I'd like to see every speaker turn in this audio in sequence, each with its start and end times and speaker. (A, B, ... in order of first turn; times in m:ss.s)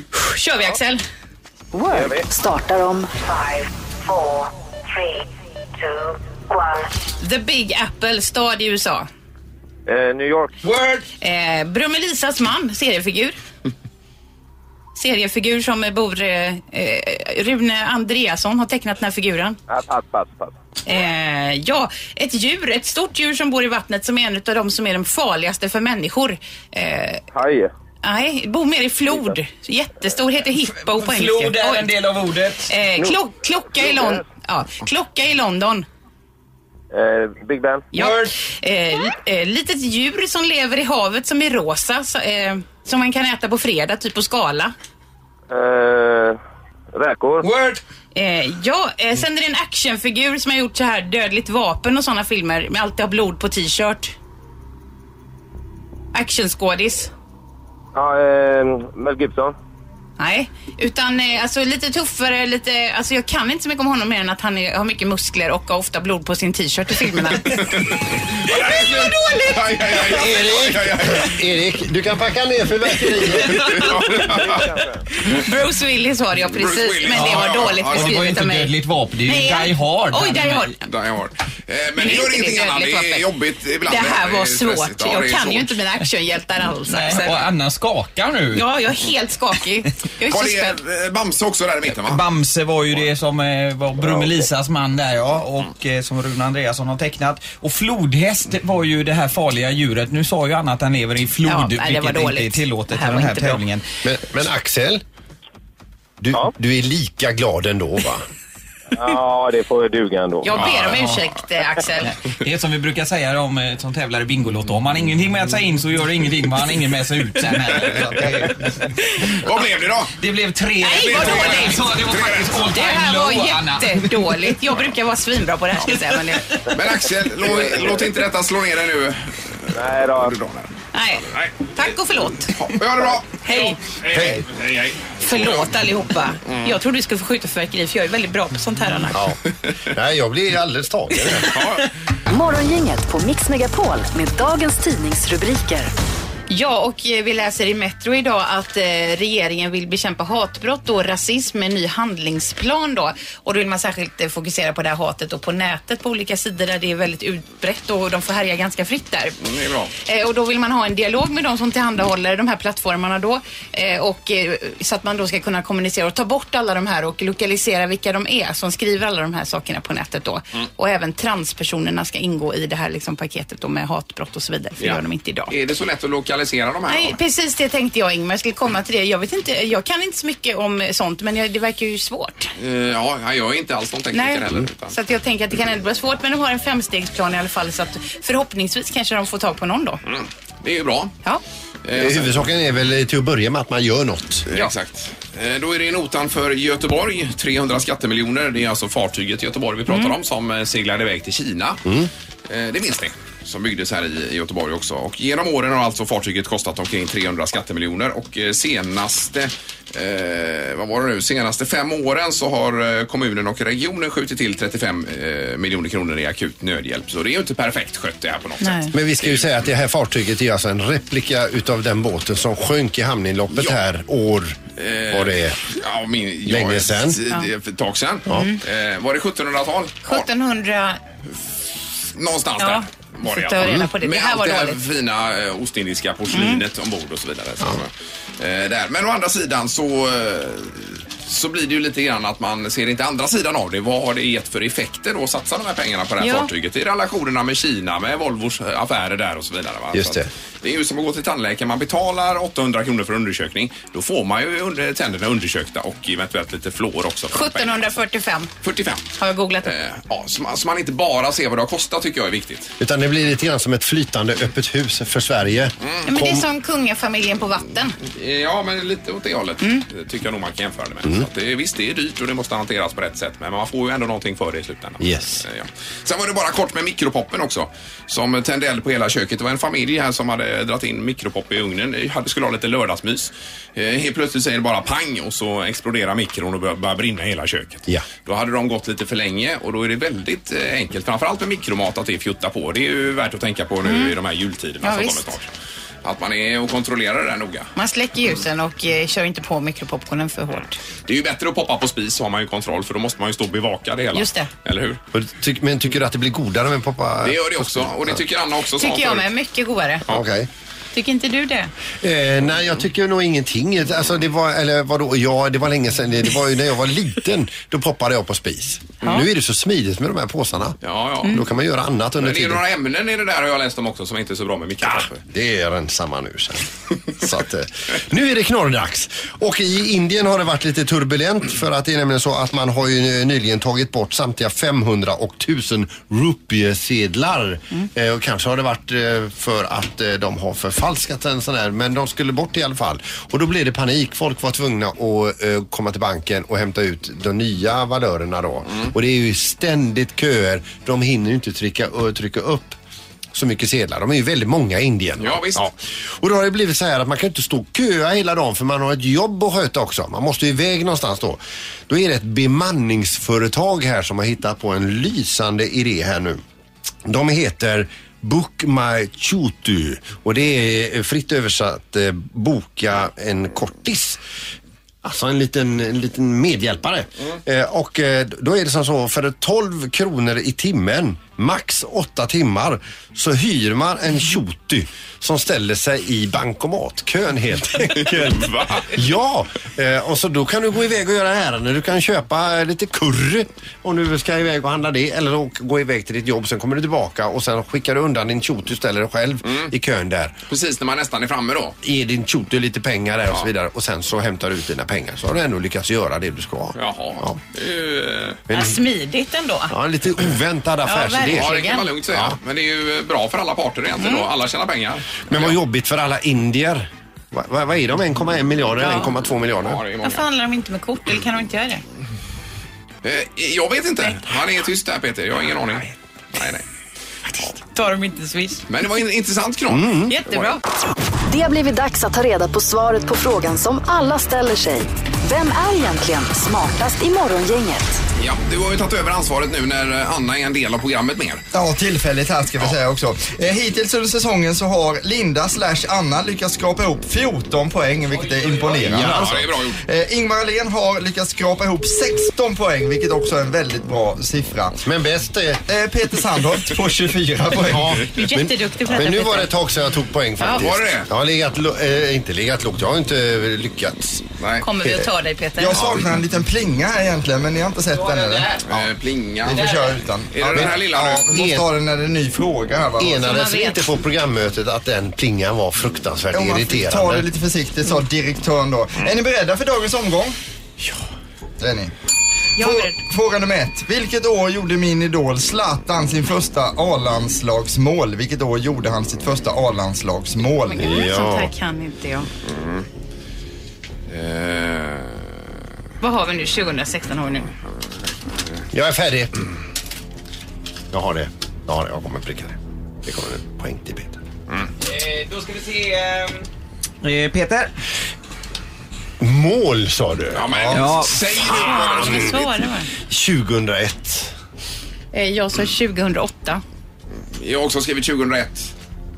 0:00.1-0:01.0 A
0:01.7-0:04.4 B
0:01.9-0:02.2 C
0:05.9-0:06.8 B
0:07.2-0:09.1 A
0:09.9-0:10.5 C
0:10.6-0:11.0 D
0:11.2-0:13.4 A
0:15.0-0:19.6 A
0:19.7-0:20.6 C
0:20.9-0:27.2 A
0:27.3-0:27.7 C
0:28.0-0:31.9 A
0:30.6-0:32.7 D
0:32.7-0:35.9 A
0:33.8-0:34.2 C
0:36.9-0:37.9 C
0:37.9-0:44.7 A
0:37.9-0:38.3 D
0:45.5-0:46.4 C
0:47.0-0:47.5 C
0:47.4-0:47.8 D
0:48.2-0:54.1 A
0:56.1-0:57.1 A
0:57.9-0:59.6 C
1:00.2-1:07.7 A
1:07.6-1:11.4 E
1:08.5-1:09.5 A
1:10.0-1:13.8 F
1:13.5-1:14.7 E
1:14.2-1:15.0 C
1:15.3-1:18.7 A
1:16.5-1:18.2 E
1:17.1-1:20.7 D
1:19.3-1:20.8 A
1:20.9-1:25.7 E
1:22.0-1:23.3 A
1:23.9-1:27.4 A
1:26.9-1:28.6 D
1:28.5-1:30.8 A
1:30.3-1:32.2 E
1:32.0-1:43.8 D
1:41.5-1:43.6 A
1:44.0-1:45.0 F
1:46.2-1:48.2 F
1:48.9-1:50.6 C
1:50.4-1:52.1 A
1:50.8-1:51.2 D
1:52.0-1:59.4 D
1:57.9-1:58.5 G
1:59.3-2:00.2 E
2:00.2-2:04.5 D
2:00.8-2:01.9 A
2:01.0-2:02.8 E
2:02.7-2:06.5 A
2:06.7-2:10.7 E
2:07.4-2:08.1 C
2:09.7-2:10.4 C
2:10.9-2:12.6 A
2:11.3-2:11.7 E
2:12.6-2:15.7 E
2:13.4-2:13.8 A
2:14.1-2:14.4 F
2:15.2-2:19.2 A
2:16.5-2:16.7 E
2:19.1-2:21.5 F
2:21.4-2:21.9 E
2:22.3-2:25.9 B
2:26.5-2:39.4 A
2:39.4-2:39.9 E
2:40.0-2:55.5 A
2:54.8-2:57.2 E
2:56.9-3:02.5 A
3:02.6-3:05.0 E
3:04.1-3:10.0 A
3:10.1-3:11.1 E
3:11.8-3:12.4 E
3:11.9-3:14.5 F
3:14.5-3:21.8 E
3:19.9-3:20.1 A
3:21.8-3:22.1 F
3:22.5-3:39.6 E
3:38.6-3:38.9 A
3:38.9-3:44.6 F
3:44.8-3:50.3 E
3:45.1-3:45.6 F
3:46.5-3:47.2 F
3:48.3-3:48.6 A
3:50.1-3:51.0 A
3:52.1-4:17.8 E
3:52.6-3:54.8 A
3:56.3-3:56.6 A
4:06.2-4:06.5 A
4:09.9-4:10.3 F
4:17.3-4:18.5 A
4:18.6-4:19.0 E
4:19.2-4:19.7 A
4:19.6-4:22.7 E
4:22.8-4:26.4 F
4:26.1-4:28.0 A
4:28.1-4:55.5 E
4:35.0-4:35.4 F
4:53.8-4:54.1 A
4:54.8-4:55.3 A
4:56.0-4:57.7 E
4:57.8-5:00.8 A
5:01.1-5:05.0 E
5:04.1-5:04.5 A
5:05.1-5:08.2 F
5:07.2-5:09.3 E
5:08.8-5:10.0 A
5:10.1-5:10.5 F
5:10.9-5:11.7 A
5:12.0-5:22.6 F
5:20.8-5:21.4 E
5:22.2-5:25.2 E
5:24.8-5:52.8 F
5:53.3-6:06.4 F
5:55.2-5:55.7 E
6:07.0-6:14.2 F
6:15.0-6:40.4 F
6:28.0-6:28.9 E
6:40.5-6:41.8 E
6:41.8-6:47.4 F
6:46.8-6:48.4 E
6:48.5-6:48.8 F
6:48.5-6:49.7 A
6:49.7-6:51.6 F
6:50.8-6:51.9 A
6:51.3-6:55.6 E
6:52.1-6:52.4 F
6:54.0-6:54.3 A
6:55.3-6:59.8 F
6:58.8-6:59.1 A
6:59.6-7:00.2 E
7:00.0-7:01.8 A
7:03.0-7:06.6 E
7:07.6-7:08.6 A
7:08.7-7:10.5 E
7:09.7-7:10.1 F
7:10.1-7:10.6 A
7:11.3-7:18.0 B
7:18.2-7:21.5 E
7:21.5-7:34.8 G
7:28.2-7:28.8 D
7:28.8-7:29.8 E
7:28.9-7:29.4 F
7:34.8-7:35.6 F
7:35.7-7:38.0 G
7:37.7-7:44.3 F
7:38.1-7:39.5 A
7:40.5-7:41.1 E
7:44.4-7:44.7 E
7:44.6-7:45.8 A
7:45.6-7:48.9 G
7:45.8-7:46.0 F
7:47.9-7:48.6 D
7:48.7-7:49.7 E
7:49.4-7:53.3 G
7:49.6-7:49.9 D
7:50.3-7:51.3 E
7:51.3-7:51.7 F
7:53.0-7:57.3 F
7:53.2-7:53.9 A
7:56.3-8:00.4 G
8:01.6-8:01.9 G
8:02.6-8:03.0 A
8:02.6-8:10.9 G
8:10.6-8:12.3 A
8:10.8-8:11.5 F
8:14.1-8:15.2 E
8:16.0-8:17.5 A
8:18.7-8:19.4 F
8:20.9-8:24.2 F
8:24.8-8:26.4 D
8:27.0-8:27.7 D
8:29.2-8:30.7 F
8:30.3-8:32.4 E
8:30.5-8:30.8 G
8:30.7-8:31.2 D
8:31.4-8:32.9 A
8:31.5-8:32.4 F
8:33.1-8:34.3 F
8:35.1-8:36.6 A
8:37.4-8:38.7 E